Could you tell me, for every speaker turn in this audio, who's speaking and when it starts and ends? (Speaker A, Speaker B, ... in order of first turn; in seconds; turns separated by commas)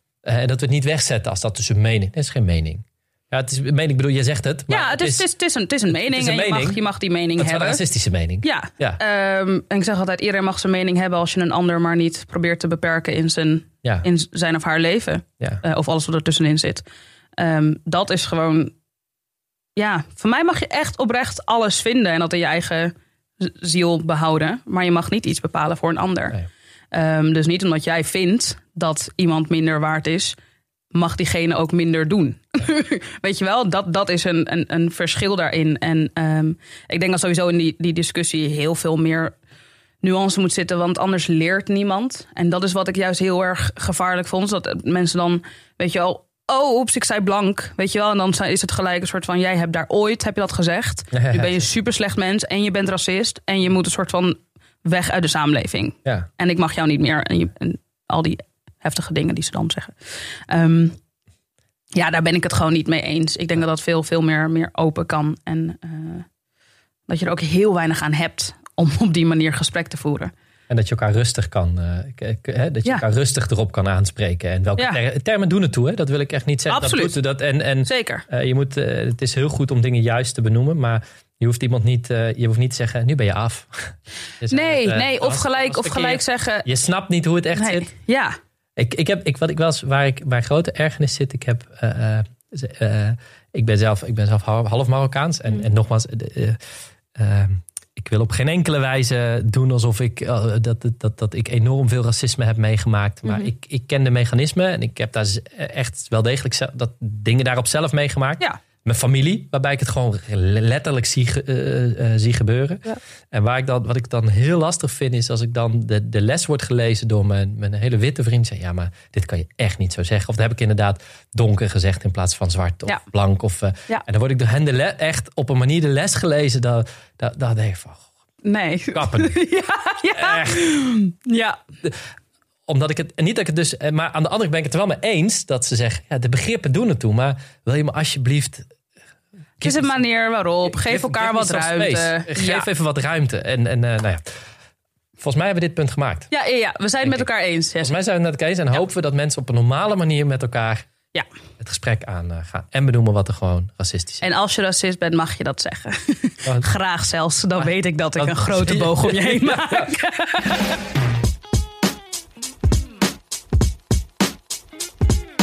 Speaker A: 0.2-5.2, Speaker B: 4.7-7.8, Speaker A: 5.9-6.8, Speaker A: 7.4-9.0, Speaker B: 8.4-16.8, Speaker B: 17.4-18.7, Speaker B: 19.8-26.4, Speaker B: 26.9-30.4, Speaker B: 30.9-39.3, Speaker B: 40.0-61.0, Speaker A: 51.1-51.6, Speaker B: 61.9-66.2, Speaker B: 67.1-70.3, Speaker A: 70.7-87.8, Speaker B: 76.7-77.2, Speaker B: 77.8-78.2, Speaker B: 84.5-86.7, Speaker B: 87.5-88.3, Speaker A: 88.8-96.6, Speaker A: 97.2-128.1, Speaker B: 128.4-131.6, Speaker A: 128.9-129.4, Speaker A: 130.1-130.7, Speaker A: 131.8-132.1, Speaker A: 132.7-138.7, Speaker A: 139.6-140.0, Speaker B: 139.6-142.7, Speaker A: 140.7-144.3, Speaker A: 145.2-146.3, Speaker B: 146.3-147.9, Speaker A: 147.0-147.3, Speaker A: 147.8-150.9, Speaker A: 151.6-154.2, Speaker B: 154.2-160.6, Speaker A: 157.6-159.9